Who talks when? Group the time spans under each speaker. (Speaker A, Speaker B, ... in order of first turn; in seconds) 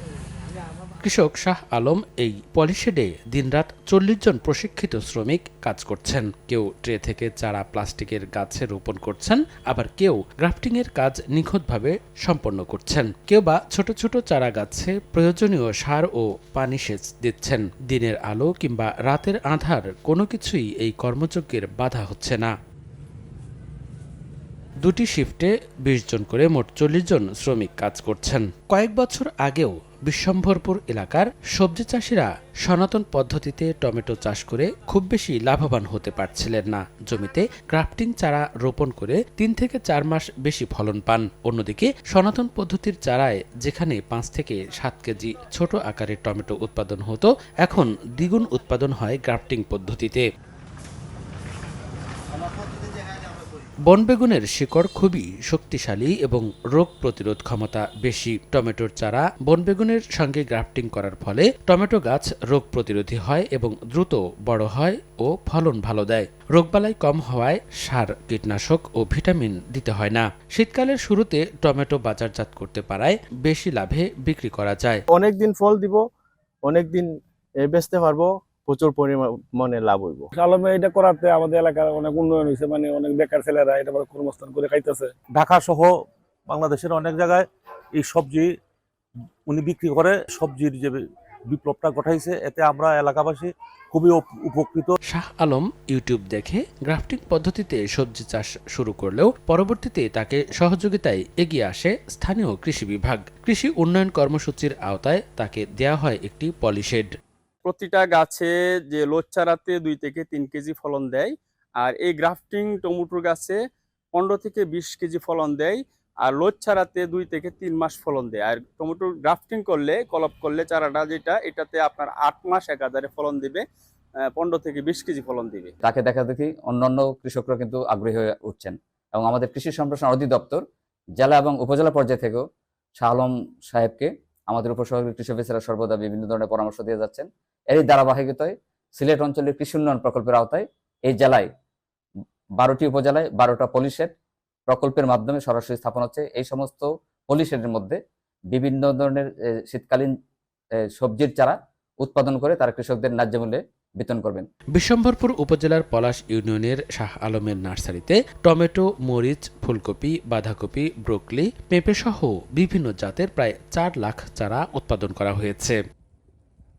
Speaker A: 1.0-22.5, 24.8-50.3, 53.9-75.0, 95.1-107.1, 154.7-165.8
Speaker B: 75.1-76.0, 76.7-77.1, 77.6-80.3
Speaker C: 80.3-85.1
Speaker D: 85.3-85.9, 86.5-87.5, 88.0-88.5, 89.5-94.9
Speaker E: 107.7-113.6, 114.1-123.6, 124.3-125.7
Speaker F: 125.8-130.6, 131.2-132.4, 133.0-141.5, 142.6-144.1, 144.7-148.0, 148.5-150.1, 150.8-154.5